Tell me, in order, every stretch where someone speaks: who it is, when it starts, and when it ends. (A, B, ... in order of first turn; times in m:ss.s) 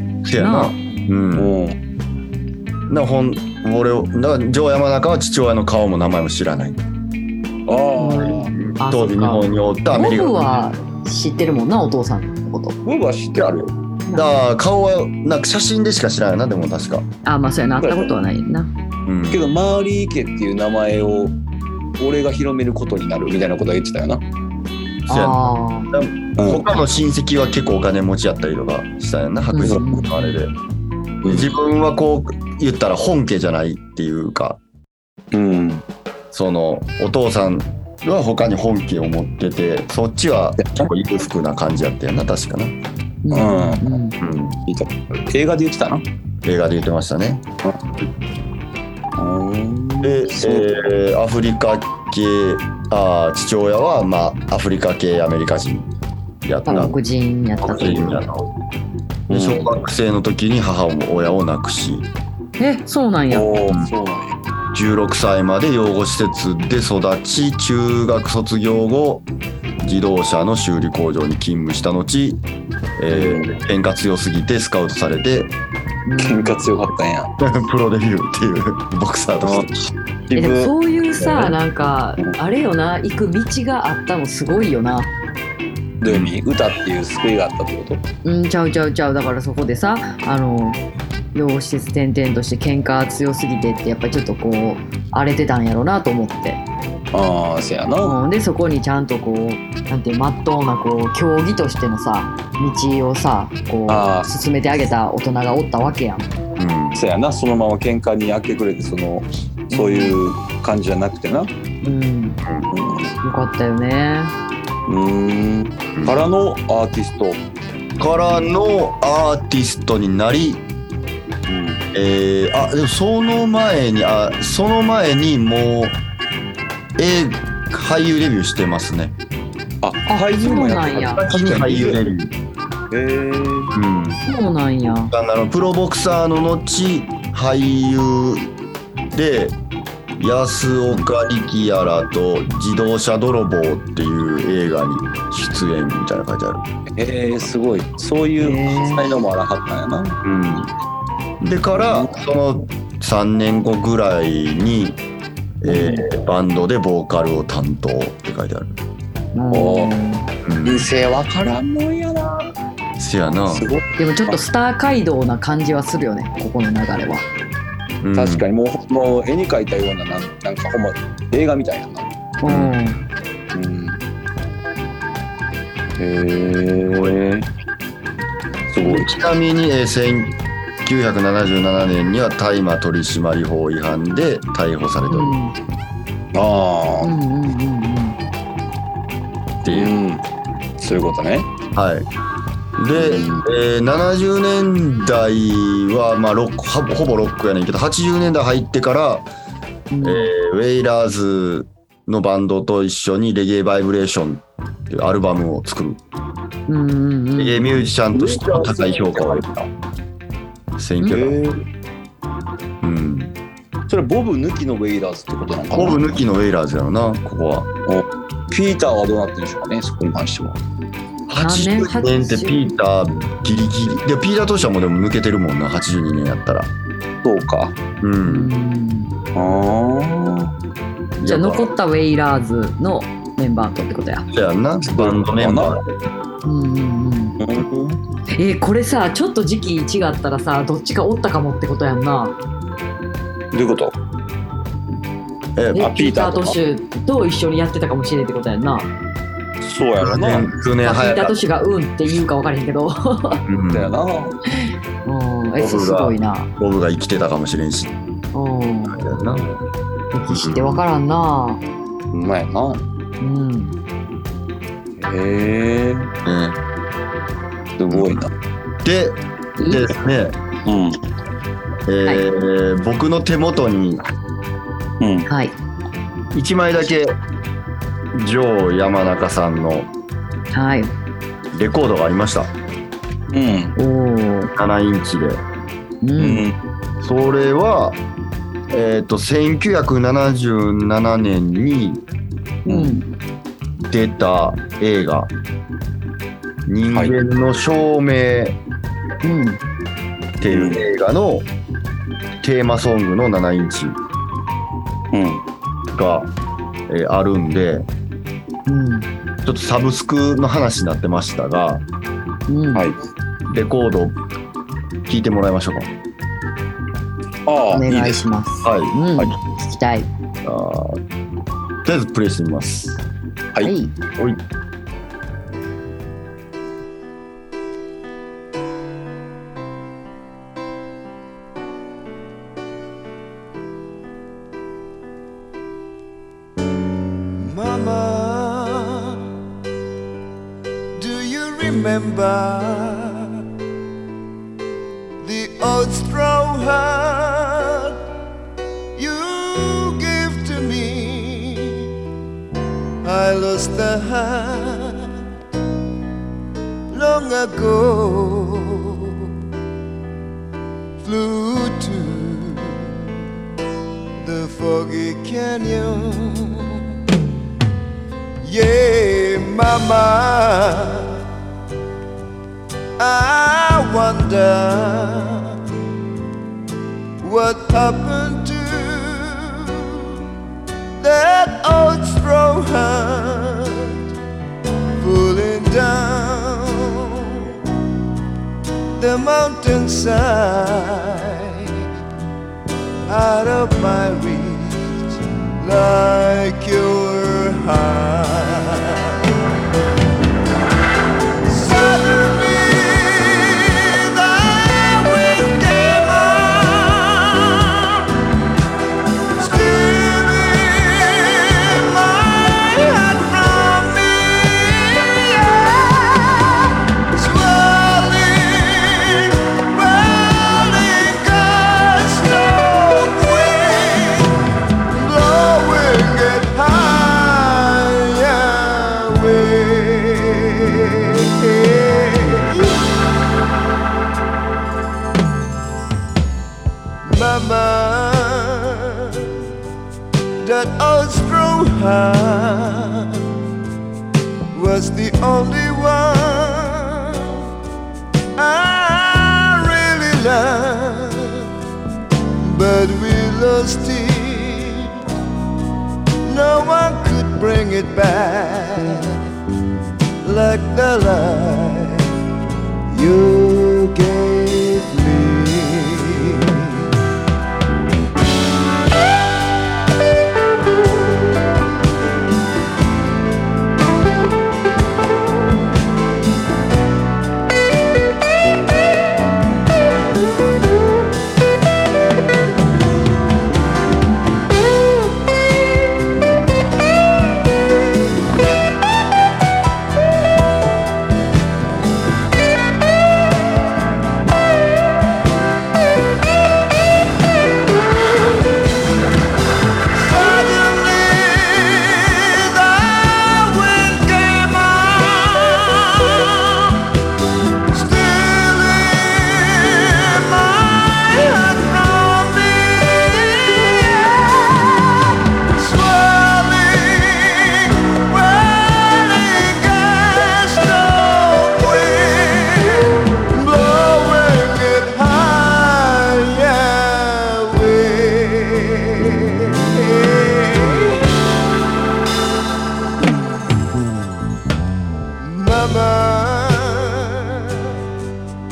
0:00.2-0:01.5 A
0:00.4-0:00.8 B
0:01.4-0:01.8 C
0:02.9-0:06.8 A
0:07.7-0:08.5 C
0:08.0-0:12.8 B
0:08.3-0:10.6 A
0:12.8-0:13.7 C
0:13.4-0:17.1 A
0:14.1-0:14.4 B
0:17.2-0:18.7 B
0:17.8-0:18.1 C
0:19.1-0:19.5 A
0:19.3-0:21.4 C
0:22.0-0:24.2 C
0:25.1-0:25.9 B
0:25.1-0:30.5 A
0:26.4-0:26.7 C
0:29.5-0:30.4 B
0:31.2-0:31.5 C
0:31.3-0:34.6 A
0:35.3-0:35.8 C
0:36.3-0:42.8 A
0:40.6-0:40.9 C
0:43.2-0:44.2 B
0:43.3-0:44.0 C
0:44.2-0:44.6 A
0:44.7-0:46.0 C
0:46.4-0:47.4 A
0:49.2-0:50.9 C
0:50.0-0:55.9 A
0:56.4-0:57.0 A
0:56.7-0:58.3 B
0:57.6-0:58.5 A
0:59.3-0:59.8 C
0:59.3-1:02.1 A
1:02.6-1:03.5 B
1:03.3-1:04.4 C
1:04.7-1:09.2 A
1:09.8-1:12.4 A
1:13.0-1:15.5 A
1:13.1-1:13.6 C
1:16.1-1:16.6 B
1:16.2-1:17.3 C
1:17.4-1:19.7 A
1:19.4-1:21.5 C
1:20.4-1:25.1 B
1:26.0-1:28.0 C
1:26.0-1:26.3 A
1:28.2-1:30.8 B
1:31.3-1:36.6 B
1:37.1-1:38.2 C
1:38.0-1:46.3 B
1:43.9-1:44.3 C
1:46.6-1:47.0 A
1:47.0-1:51.5 C
1:49.7-1:50.2 B
1:51.8-1:52.4 B
1:52.4-1:52.7 A
1:52.7-1:53.2 C
1:53.2-1:54.3 B
1:54.9-1:57.4 C
1:56.0-1:56.2 A
1:58.0-2:00.6 A
2:01.5-2:01.8 C
2:01.9-2:06.0 A
2:07.0-2:09.2 A
2:09.8-2:12.0 C
2:10.1-2:11.3 B
2:11.2-2:12.3 A
2:12.9-2:13.7 C
2:13.7-2:14.2 A
2:14.3-2:15.1 B
2:15.1-2:18.5 A
2:19.1-2:19.6 A
2:20.2-2:26.6 A
2:27.0-2:30.2 C
2:28.4-2:29.0 B
2:30.2-2:30.7 A
2:31.4-2:35.0 A
2:31.8-2:32.2 C
2:35.6-2:38.8 A
2:35.6-2:36.1 B
2:39.4-2:40.3 B
2:39.5-2:39.9 C
2:40.4-2:40.9 A
2:40.6-2:42.5 C
2:43.0-2:43.7 A
2:43.5-2:44.4 C
2:44.0-2:47.3 B
2:48.0-2:48.4 A
2:48.2-2:52.1 C
2:52.4-2:53.0 B
2:52.5-2:52.8 A
2:53.5-2:54.0 C
2:56.0-2:57.5 C
2:58.7-2:59.1 C
2:58.8-3:05.4 A
3:05.1-3:05.6 B
3:06.3-3:07.1 C
3:07.0-3:08.2 B
3:09.6-3:10.2 C
3:09.6-3:10.0 A
3:10.8-3:11.5 C
3:11.7-3:12.1 A
3:12.8-3:19.3 A
3:13.0-3:13.5 C
3:19.9-3:20.3 B
3:20.0-3:26.0 A
3:26.7-3:27.7 B
3:27.4-3:29.5 A
3:28.1-3:29.7 C
3:30.8-3:31.4 A
3:31.1-3:31.6 C
3:32.8-3:33.3 A
3:33.9-3:36.0 C
3:35.7-3:37.7 A
3:37.9-3:40.6 C
3:41.3-3:46.7 A
3:41.4-3:42.6 B
3:47.2-3:47.8 C
3:48.0-3:48.5 A
3:48.2-3:49.1 B
3:49.4-3:50.5 C
3:51.2-3:51.7 A
3:51.2-3:54.3 B
3:54.3-3:55.9 A
3:54.8-3:55.8 C
3:56.4-3:57.4 B
3:57.4-3:58.0 C
3:58.3-4:02.4 B
4:03.5-4:04.0 C
4:05.6-4:05.9 A
4:05.8-4:08.9 B
4:05.8-4:06.6 C
4:09.6-4:10.5 C
4:10.0-4:11.4 A
4:10.8-4:13.4 B
4:13.5-4:13.9 A
4:13.7-4:14.4 C
4:14.5-4:16.5 B
4:15.6-4:17.9 A
4:18.3-4:19.1 B
4:18.9-4:19.4 A
4:19.3-4:19.6 C
4:20.1-4:21.6 B
4:20.3-4:20.8 A
4:22.1-4:22.8 C
4:23.2-4:23.8 B
4:25.0-4:26.1 C
4:26.2-4:26.6 A
4:27.8-4:28.3 C
4:27.9-4:28.3 A
4:28.8-4:30.4 A
4:29.6-4:30.0 B
4:30.7-4:31.0 C
4:31.9-4:34.0 A
4:35.0-4:35.3 C
4:35.3-4:35.5 B
4:36.3-4:37.2 A
4:38.1-4:39.9 A
4:40.5-4:40.9 B
4:41.5-4:42.5 A
4:43.3-4:43.8 C
4:43.8-4:44.5 B
4:44.6-4:45.4 A
4:46.0-4:46.4 B
4:46.2-4:46.5 C
4:47.0-4:48.0 A
4:48.7-4:52.0 A
4:52.7-4:53.1 B
4:52.7-4:53.0 C
4:53.8-4:55.3 A
4:56.7-4:58.6 A
4:59.2-4:59.6 B
5:00.4-5:01.5 A
5:00.4-5:00.8 C
5:02.4-5:04.0 A
5:05.1-5:05.4 C
5:05.9-5:06.3 A
5:06.9-5:07.9 A
5:08.7-5:09.1 B
5:09.4-5:11.8 A
5:12.5-5:12.9 B
5:13.5-5:14.2 A
5:15.1-5:15.9 A
5:17.5-5:18.2 C
5:17.7-5:20.1 B
5:18.6-5:19.4 A
5:20.4-5:21.0 A
5:21.8-5:23.0 A
5:23.6-5:24.0 B
5:37.4-5:39.2 D
5:41.0-5:43.3 D
5:45.2-5:48.0 D
5:49.0-5:51.9 D
5:53.0-5:55.1 D
5:56.9-5:59.1 D
6:01.0-6:02.9 D
6:04.2-6:06.6 D
6:08.4-6:11.1 D
6:13.0-6:15.6 D
6:17.2-6:20.0 D
6:21.0-6:24.1 D
6:25.0-6:27.4 D
6:29.0-6:31.7 D
6:33.1-6:39.2 D
6:41.5-6:48.1 D
6:49.4-7:04.3 D
7:04.9-7:12.8 D
7:17.0-7:19.3 D
7:20.4-7:23.2 D
7:24.5-7:27.4 D
7:28.4-7:31.4 D
7:32.4-7:34.9 D
7:36.2-7:39.1 D
7:40.2-7:42.1 D
7:42.9-7:46.9 D
8:20.0-8:26.8 D
8:27.7-8:51.1 D
8:55.2-8:57.7 D